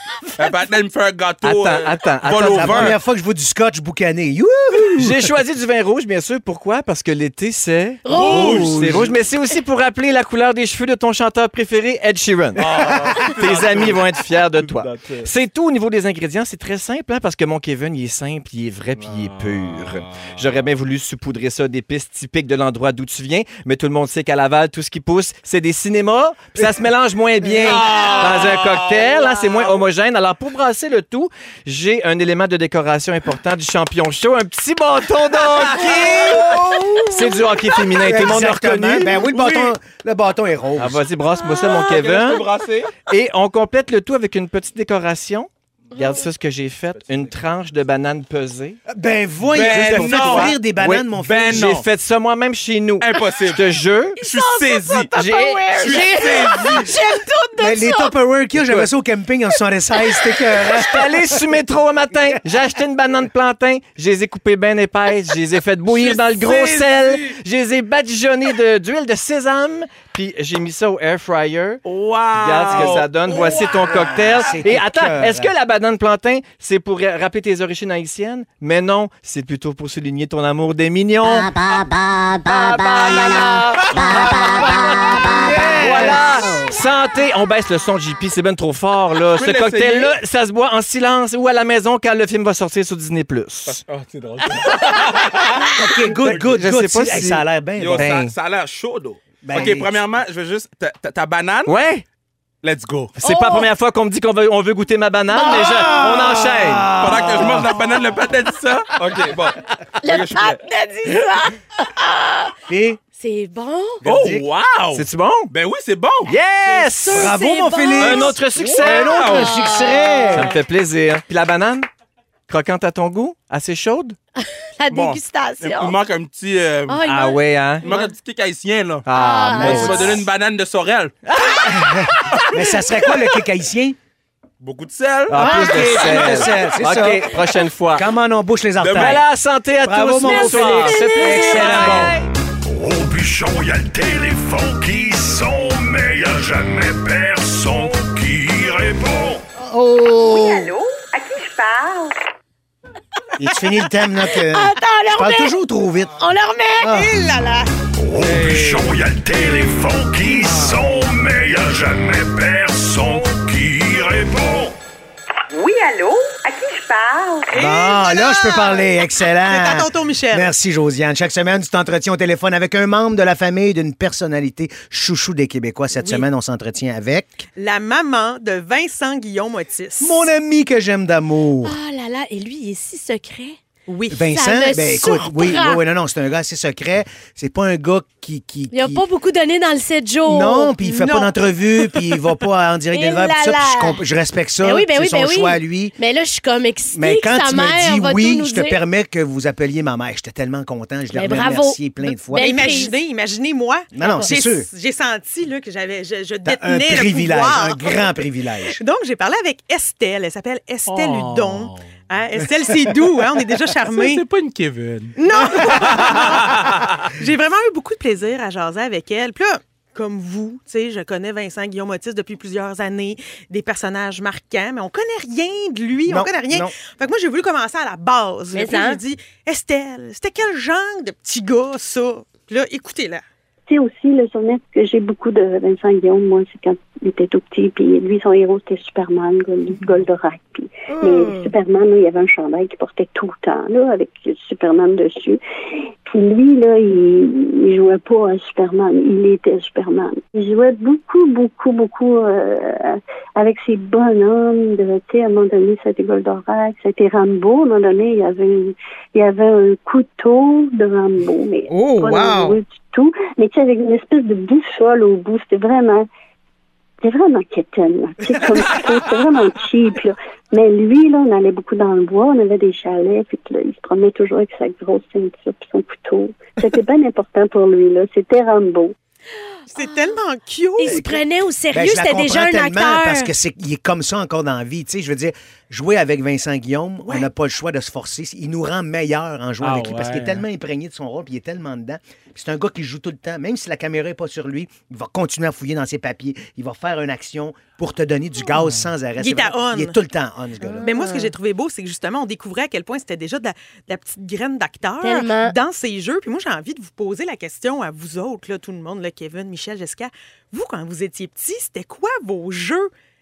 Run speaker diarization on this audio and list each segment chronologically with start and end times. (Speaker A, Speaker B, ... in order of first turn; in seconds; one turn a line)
Speaker A: 0.4-3.0
Speaker B: 1.4-3.0
Speaker C: 2.5-5.3
Speaker B: 5.0-39.4
Speaker D: 8.1-8.8
Speaker A: 8.1-9.1
Speaker C: 8.2-9.1
Speaker A: 12.6-15.3
Speaker A: 18.9-20.4
Speaker A: 27.5-29.8
Speaker A: 35.4-37.0
Speaker C: 35.8-37.0
Speaker C: 38.0-41.0
Speaker B: 40.8-42.4
Speaker A: 41.5-42.9
Speaker B: 43.1-48.8
Speaker A: 47.0-47.3
Speaker C: 48.9-51.6
Speaker A: 49.5-50.5
Speaker B: 49.6-54.2
Speaker A: 51.1-51.9
Speaker A: 53.0-53.6
Speaker D: 54.2-58.1
Speaker A: 54.2-55.2
Speaker B: 55.1-56.9
Speaker A: 55.8-56.9
Speaker C: 57.6-61.4
Speaker A: 58.6-58.9
Speaker D: 60.0-60.4
Speaker B: 60.6-93.8
Speaker A: 65.9-67.3
Speaker A: 71.8-74.0
Speaker C: 72.7-73.0
Speaker C: 73.9-75.5
Speaker C: 85.4-86.4
Speaker A: 89.4-90.1
Speaker A: 93.7-95.7
Speaker C: 95.7-98.1
Speaker B: 96.2-97.4
Speaker A: 97.8-101.7
Speaker B: 98.0-98.3
Speaker C: 99.4-100.0
Speaker B: 101.7-102.0
Speaker A: 102.6-103.1
Speaker B: 103.2-107.0
Speaker D: 103.2-103.7
Speaker C: 105.3-107.9
Speaker A: 107.0-110.6
Speaker D: 110.0-112.5
Speaker C: 112.7-113.0
Speaker D: 113.2-114.0
Speaker C: 114.0-114.5
Speaker A: 114.0-116.3
Speaker B: 114.9-115.5
Speaker B: 116.3-117.3
Speaker D: 116.7-118.4
Speaker C: 117.1-120.5
Speaker B: 118.0-119.5
Speaker A: 118.8-119.5
Speaker D: 119.3-120.4
Speaker B: 120.3-121.9
Speaker B: 122.5-124.2
Speaker D: 124.4-126.0
Speaker A: 124.9-127.1
Speaker D: 126.9-127.4
Speaker B: 127.0-127.9
Speaker A: 127.8-131.2
Speaker B: 129.1-130.2
Speaker D: 129.2-130.2
Speaker B: 131.3-131.9
Speaker C: 131.7-133.9
Speaker A: 134.6-136.8
Speaker B: 135.3-138.1
Speaker C: 135.3-137.3
Speaker C: 137.9-139.2
Speaker A: 138.8-139.2
Speaker B: 138.9-142.3
Speaker C: 139.8-142.2
Speaker D: 140.2-142.0
Speaker E: 142.7-149.4
Speaker C: 149.6-150.7
Speaker F: 150.2-152.1
Speaker C: 153.4-156.2
Speaker D: 154.4-155.5
Speaker D: 156.2-156.9
Speaker C: 156.8-157.2
Speaker F: 156.8-157.7
Speaker E: 158.0-164.7
Speaker A: 158.2-158.9
Speaker F: 165.5-168.9
Speaker C: 167.5-177.4
Speaker F: 169.4-170.5
Speaker F: 175.9-176.2
Speaker F: 177.6-180.3
Speaker C: 180.0-181.7
Speaker D: 181.6-183.6
Speaker F: 183.9-184.2
Speaker C: 184.1-189.0
Speaker D: 184.2-185.8
Speaker D: 188.7-190.7
Speaker C: 190.2-195.9
Speaker F: 190.8-191.4
Speaker D: 192.9-194.0
Speaker D: 194.6-198.8
Speaker C: 196.9-202.7
Speaker D: 201.1-202.9
Speaker F: 202.3-208.1
Speaker C: 203.9-204.7
Speaker D: 204.0-204.3
Speaker C: 206.4-208.8
Speaker F: 208.7-214.2
Speaker A: 210.9-211.8
Speaker A: 213.9-217.1
Speaker F: 215.2-233.2
Speaker C: 226.1-226.7
Speaker D: 228.5-229.0
Speaker G: 233.7-245.4
Speaker F: 240.9-241.5
Speaker G: 246.1-266.1
Speaker F: 261.7-262.6
Speaker G: 267.0-278.9
Speaker F: 279.7-281.2
Speaker D: 280.8-283.3
Speaker C: 281.7-300.9
Speaker A: 289.6-290.4
Speaker F: 299.2-300.0
Speaker D: 300.6-301.3
Speaker F: 300.8-312.9
Speaker D: 305.0-305.6